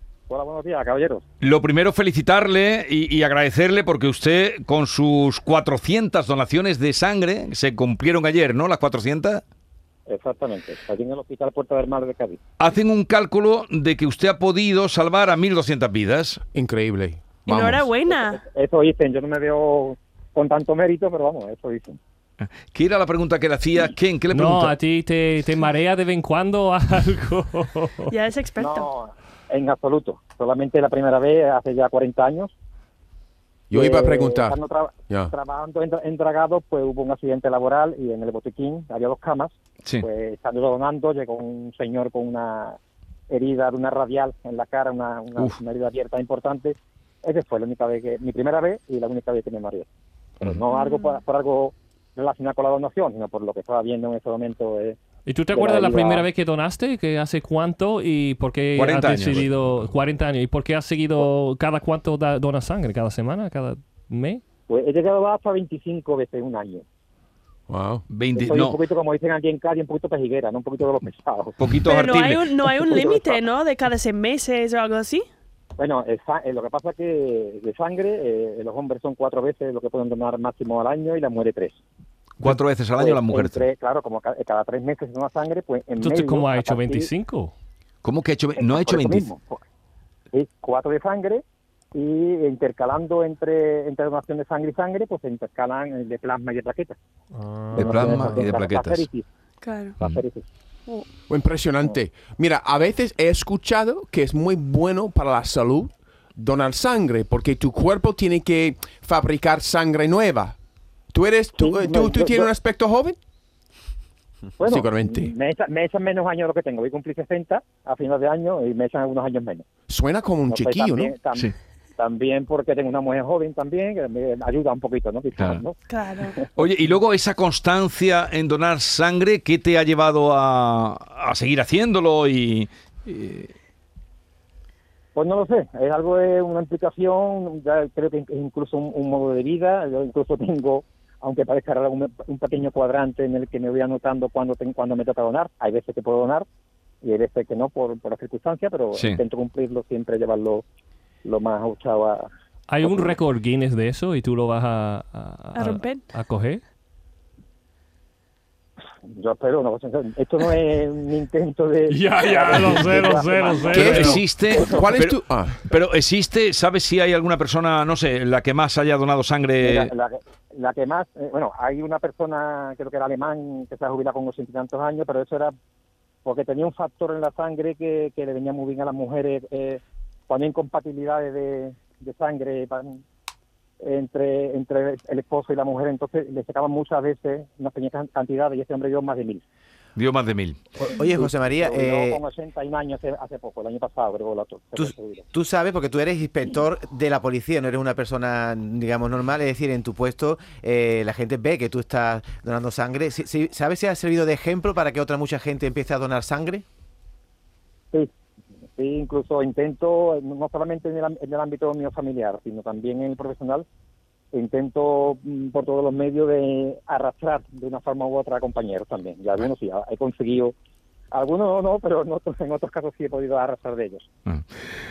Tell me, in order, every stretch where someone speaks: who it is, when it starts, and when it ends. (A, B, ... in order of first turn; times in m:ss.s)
0:00.3-0:01.2 A
0:01.4-0:09.4 B
0:10.1-0:12.4 A
0:12.6-0:16.4 B
0:16.5-0:18.0 C
0:17.4-0:18.4 D
0:18.0-0:22.0 A
0:22.7-0:24.7 B
0:24.3-0:28.1 E
0:28.1-0:28.9 D
0:28.6-0:32.5 A
0:33.7-0:34.6 C
0:33.7-0:42.8 A
0:43.3-0:49.9 A
0:50.4-0:55.0 A
0:50.7-0:51.2 D
0:55.2-1:04.4 E
0:55.5-0:56.3 A
0:58.8-0:59.5 B
1:04.7-1:06.8 A
1:07.7-1:08.0 C
1:08.1-1:08.8 B
1:08.3-1:11.6 A
1:11.6-1:12.5 B
1:11.8-1:15.3 D
1:12.7-1:13.4 A
1:15.8-1:21.8 A
1:22.4-1:23.6 B
1:22.5-1:27.1 A
1:26.0-1:27.5 E
1:28.0-1:29.3 B
1:28.6-1:29.6 A
1:30.3-1:31.4 A
1:31.9-1:37.0 A
1:37.4-1:38.5 E
1:37.7-1:39.1 B
1:37.7-1:39.3 A
1:39.6-1:40.0 D
1:40.0-1:40.5 A
1:41.3-1:50.6 C
1:51.1-1:53.2 C
1:51.6-1:52.5 A
1:54.6-1:59.7 A
1:54.6-1:55.3 C
1:59.9-2:01.1 C
2:00.5-2:06.2 A
2:05.9-2:06.4 D
2:06.5-2:13.5 B
2:15.1-2:26.4 A
2:27.0-2:30.6 A
2:28.9-2:29.2 B
2:31.2-2:32.3 A
2:32.7-2:36.6 E
2:35.5-2:36.1 D
2:39.0-2:44.8 A
2:41.9-2:44.2 E
2:43.7-2:49.9 B
2:43.7-2:45.6 C
2:49.6-2:55.5 A
2:56.2-3:03.0 A
3:03.8-3:09.4 A
3:10.0-3:10.6 B
3:10.8-3:12.2 F
3:11.0-3:15.3 A
3:14.8-3:26.6 F
3:28.8-3:33.6 A
3:34.3-3:40.5 A
3:41.1-3:44.0 A